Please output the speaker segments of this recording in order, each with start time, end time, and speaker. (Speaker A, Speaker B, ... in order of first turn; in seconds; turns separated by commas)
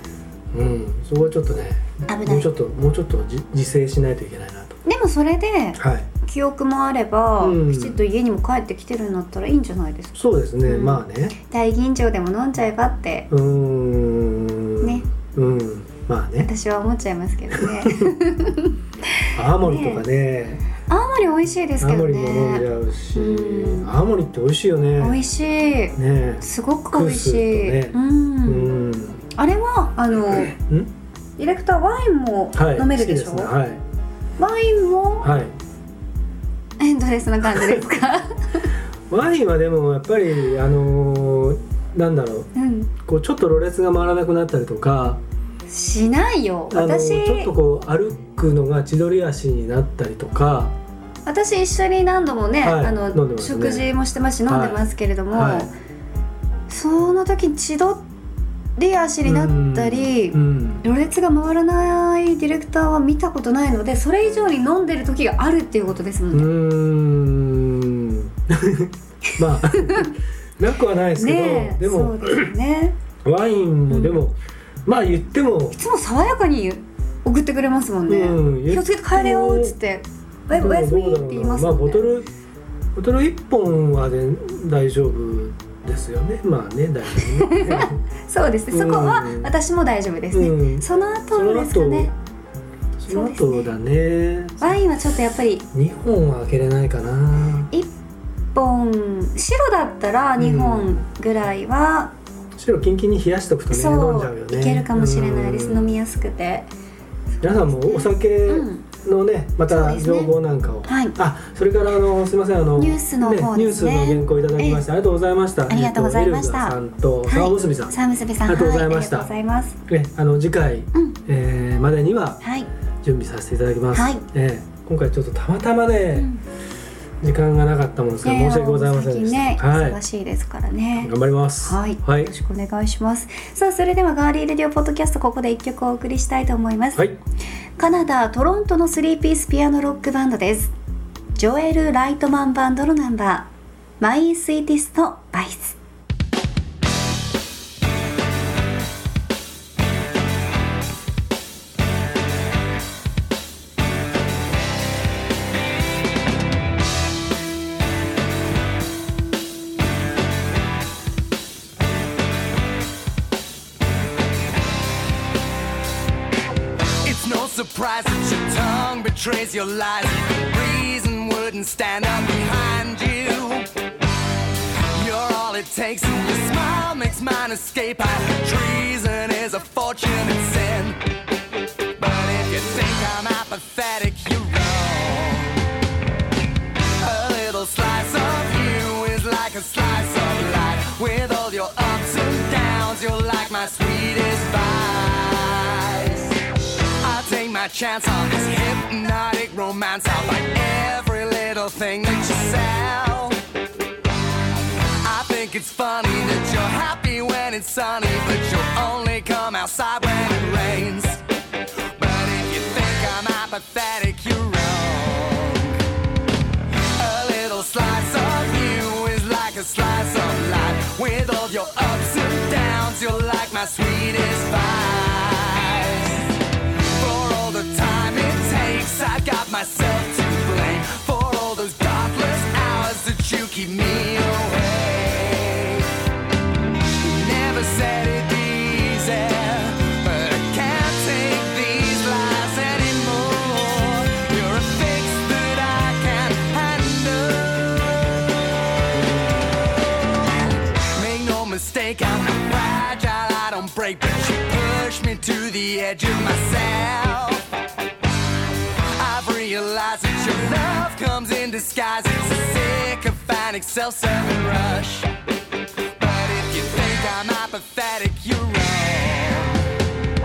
Speaker A: 0.5-4.8, Speaker B: 2.1-2.5, Speaker B: 4.8-13.3, Speaker A: 5.8-6.1, Speaker A: 7.4-8.0, Speaker A: 10.1-11.3, Speaker A: 13.3-16.5, Speaker B: 14.8-15.1, Speaker B: 16.4-20.0, Speaker A: 17.5-18.1, Speaker A: 19.3-20.6, Speaker B: 20.9-23.9, Speaker A: 21.8-25.2, Speaker B: 25.0-28.8, Speaker A: 25.9-29.2, Speaker B: 29.3-30.6, Speaker A: 30.4-30.9, Speaker B: 31.4-33.5, Speaker A: 32.5-33.8, Speaker B: 34.4-35.3, Speaker A: 35.2-35.5, Speaker B: 36.8-38.7, Speaker A: 39.1-45.2, Speaker B: 42.5-42.9, Speaker B: 45.7-47.5, Speaker A: 46.7-50.7, Speaker B: 51.2-55.7, Speaker A: 52.6-53.9, Speaker A: 54.5-55.7, Speaker B: 56.7-58.0, Speaker B: 58.8-66.5, Speaker A: 59.2-60.8, Speaker A: 66.3-72.5, Speaker B: 69.3-70.1, Speaker B: 71.2-73.0, Speaker A: 73.2-75.8, Speaker B: 73.9-74.2, Speaker B: 75.7-82.0, Speaker A: 78.1-79.8, Speaker A: 80.5-82.3, Speaker A: 83.0-88.0, Speaker B: 87.2-92.1, Speaker A: 88.7-89.5, Speaker A: 90.3-92.1, Speaker A: 93.0-94.8, Speaker B: 93.1-93.7, Speaker B: 94.6-95.6, Speaker A: 95.7-97.7, Speaker B: 98.5-102.1, Speaker A: 100.4-101.0, Speaker A: 102.5-105.9, Speaker B: 103.7-106.7, Speaker B: 107.3-108.8, Speaker A: 107.4-117.9, Speaker B: 109.7-111.2, Speaker B: 112.8-114.8, Speaker B: 115.7-119.8, Speaker A: 118.5-119.3, Speaker A: 119.9-122.4, Speaker B: 120.9-121.2, Speaker B: 122.4-122.7, Speaker A: 123.0-126.3, Speaker B: 123.9-124.2, Speaker B: 126.1-126.4, Speaker A: 127.2-130.0, Speaker B: 128.2-131.1, Speaker A: 131.0-132.3, Speaker B: 131.6-137.1, Speaker B: 137.8-140.7, Speaker B: 141.3-143.5, Speaker B: 144.0-145.8, Speaker C: 167.0-173.7, Speaker C: 174.9-181.1, Speaker C: 181.9-185.6, Speaker C: 187.0-203.4, Speaker C: 205.0-211.2, Speaker C: 211.9-215.8, Speaker C: 216.8-236.0, Speaker C: 237.0-248.0, Speaker C: 250.1-257.5, Speaker C: 258.8-265.1, Speaker C: 266.0-269.7